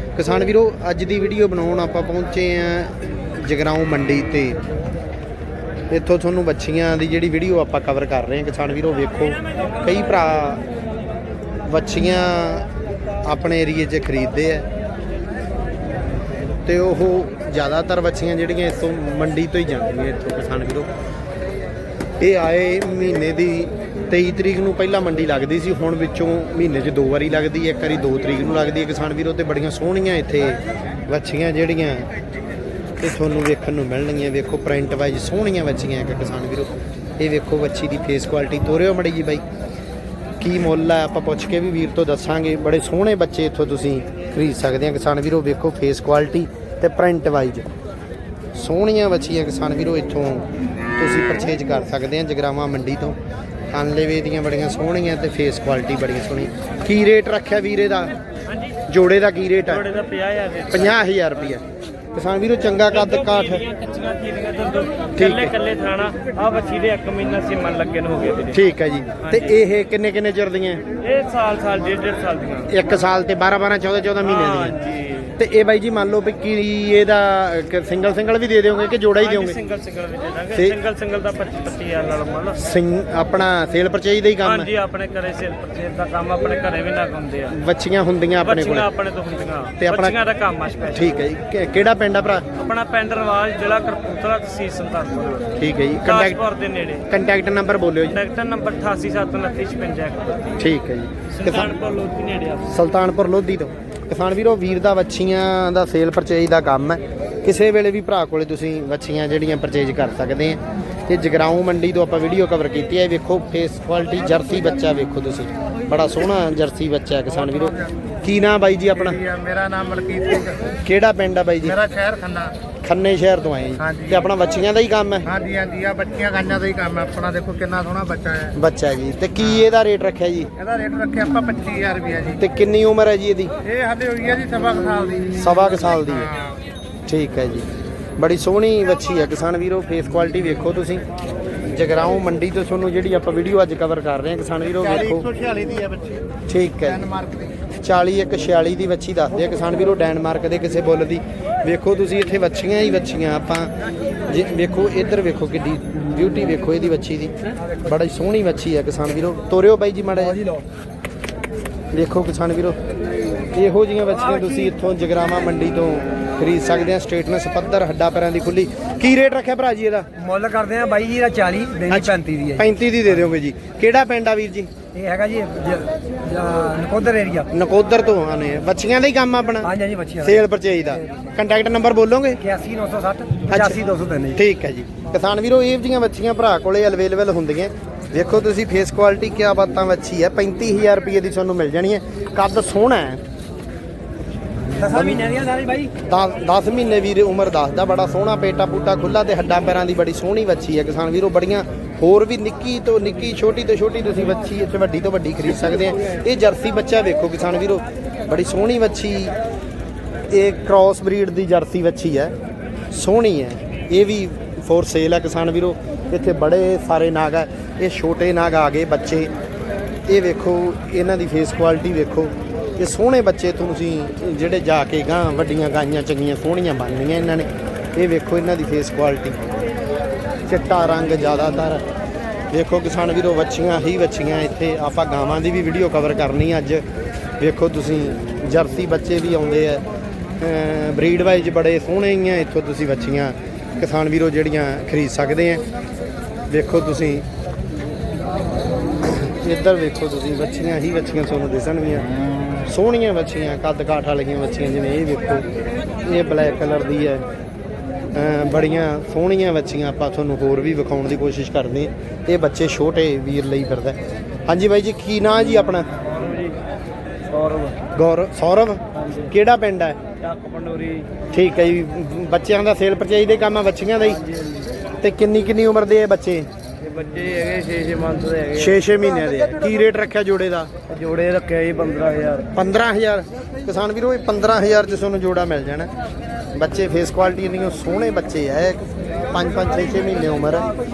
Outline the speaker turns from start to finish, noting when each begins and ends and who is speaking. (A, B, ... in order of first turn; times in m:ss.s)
0:00.2-0:04.6 A
0:05.9-0:10.6 A
0:11.7-0:12.7 A
0:13.2-0:14.7 A
0:16.6-0:20.9 A
0:22.2-0:32.1 A
0:33.0-0:39.4 A
0:40.4-0:47.7 A
0:48.5-0:53.2 A
0:53.7-0:58.1 A
0:58.9-0:59.8 A
0:59.6-1:01.0 B
1:00.7-1:01.6 A
1:02.1-1:03.6 A
1:02.9-1:08.6 B
1:05.2-1:05.5 A
1:08.5-1:10.8 A
1:09.2-1:09.6 B
1:11.0-1:12.7 B
1:12.7-1:14.8 A
1:14.2-1:15.4 B
1:15.4-1:19.6 A
1:19.2-1:22.6 B
1:22.5-1:24.7 A
1:24.4-1:27.6 B
1:27.5-1:28.9 A
1:28.4-1:31.2 B
1:29.8-1:30.2 A
1:30.9-1:32.4 A
1:32.5-1:35.5 B
1:35.6-1:36.4 A
1:36.0-1:37.0 B
1:37.0-1:38.2 A
1:38.1-1:40.6 B
1:40.6-1:41.7 A
1:41.4-1:42.7 B
1:42.7-1:59.2 A
1:59.2-2:00.2 C
2:00.4-2:01.8 A
2:01.9-2:02.5 C
2:02.8-2:05.3 A
2:05.4-2:08.4 C
2:08.5-2:10.5 A
2:10.6-2:12.2 C
2:12.3-2:13.5 A
2:13.7-2:15.2 C
2:15.3-2:16.3 A
2:17.1-2:21.0 A
2:21.7-2:25.4 A
2:25.4-2:26.0 C
2:26.5-2:27.2 A
2:27.8-2:33.7 A
2:34.2-2:40.4 A
2:40.3-2:40.6 D
2:41.9-2:42.8 A
2:43.5-2:50.1 A
2:50.2-2:52.7 D
2:51.9-2:54.7 A
2:54.9-2:57.5 D
2:57.5-3:02.4 A
2:59.6-3:00.4 D
3:02.4-3:04.4 D
3:03.5-3:13.2 A
3:14.8-3:15.3 A
3:14.8-3:15.9 D
3:16.0-3:29.3 A
3:30.3-3:32.3 A
3:32.9-3:39.3 A
3:40.1-3:49.4 A
3:50.5-3:51.8 A
3:52.5-3:56.8 A
3:57.4-3:59.8 A
4:00.4-4:05.6 A
4:06.5-4:07.2 A
4:09.0-4:15.4 A
4:16.0-4:17.2 A
4:18.1-4:25.9 A
4:26.0-4:26.6 B
4:27.3-4:27.8 B
4:27.9-4:30.0 A
4:28.9-4:29.3 B
4:30.2-4:31.1 B
4:31.3-4:34.2 A
4:34.2-4:34.7 B
4:35.0-4:36.5 A
4:36.8-4:38.8 B
4:38.5-4:40.7 A
4:40.9-4:42.5 B
4:42.5-4:45.9 A
4:46.5-4:50.7 A